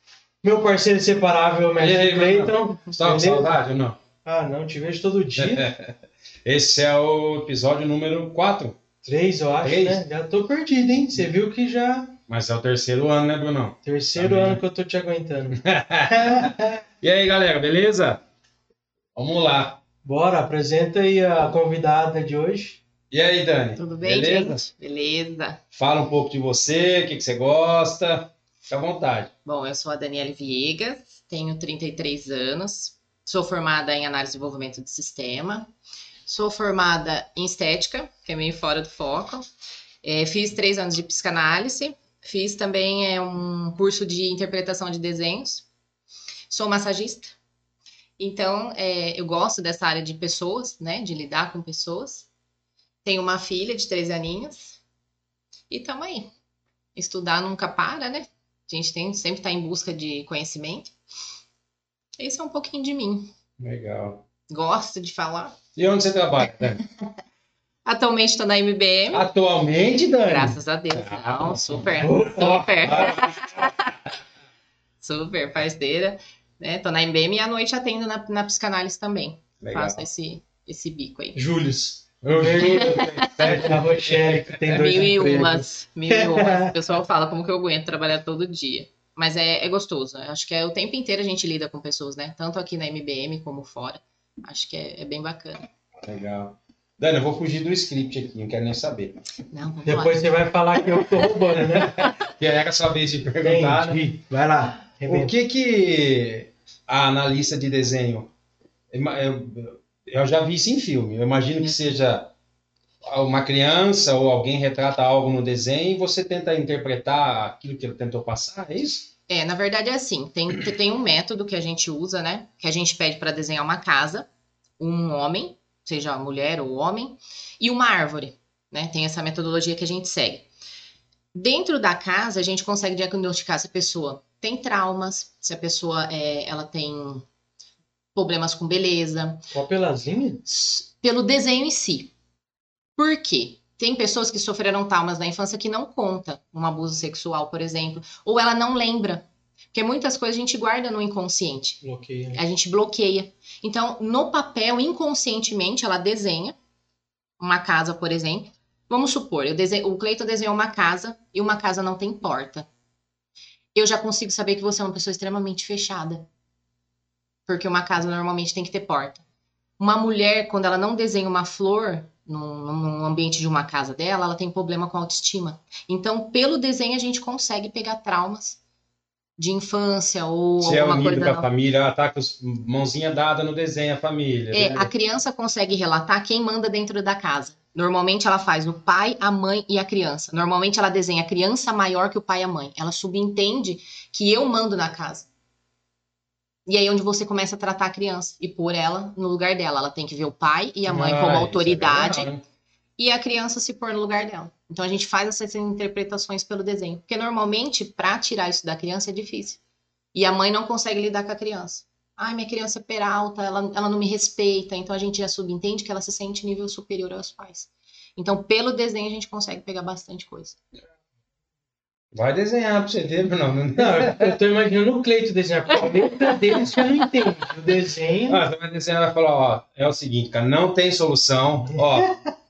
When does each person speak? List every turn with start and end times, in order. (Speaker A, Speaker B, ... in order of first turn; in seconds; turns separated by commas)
Speaker A: 0.4-3.6, Speaker B: 1.8-4.0, Speaker A: 4.2-5.7, Speaker B: 5.3-5.9, Speaker B: 6.4-8.8, Speaker A: 9.0-12.2, Speaker B: 9.6-10.0, Speaker B: 12.3-14.6, Speaker A: 13.8-16.8, Speaker B: 15.6-18.2, Speaker B: 19.1-19.8, Speaker A: 20.0-22.8, Speaker B: 23.1-24.7, Speaker C: 23.8-25.6, Speaker B: 25.7-29.3, Speaker C: 29.4-35.7, Speaker C: 36.3-39.5, Speaker C: 40.0-45.7, Speaker C: 46.5-47.4, Speaker C: 48.2-52.3, Speaker C: 53.0-54.8, Speaker C: 55.7-56.3, Speaker C: 57.0-60.9, Speaker C: 62.2-63.3, Speaker B: 63.6-64.2, Speaker C: 64.5-65.6, Speaker B: 65.8-66.8, Speaker C: 67.9-69.2, Speaker B: 69.1-73.7, Speaker C: 70.2-74.0, Speaker A: 72.0-72.8, Speaker C: 75.0-81.4, Speaker B: 79.6-80.0, Speaker A: 81.3-86.7, Speaker B: 82.2-84.9, Speaker C: 82.6-83.3, Speaker C: 84.7-95.7, Speaker B: 96.0-99.2, Speaker C: 99.5-100.2, Speaker A: 99.8-102.1, Speaker B: 102.0-104.0, Speaker A: 103.4-105.3, Speaker B: 105.1-108.3, Speaker B: 108.9-112.3, Speaker B: 113.0-119.1, Speaker C: 119.3-124.3, Speaker C: 124.8-130.5, Speaker C: 131.3-137.2, Speaker C: 138.2-139.5, Speaker A: 139.5-140.4, Speaker C: 140.5-142.1, Speaker C: 143.0-151.8, Speaker A: 151.8-152.4, Speaker C: 152.3-156.5, Speaker C: 157.4-162.7, Speaker C: 163.8-166.3, Speaker C: 167.5-169.2, Speaker C: 169.8-178.6, Speaker C: 179.4-181.5, Speaker B: 180.6-184.9, Speaker C: 184.5-195.3, Speaker C: 196.7-202.3, Speaker B: 200.9-202.4, Speaker C: 203.0-209.6, Speaker C: 210.1-220.6, Speaker B: 222.1-224.3, Speaker A: 223.8-228.4, Speaker B: 228.3-232.1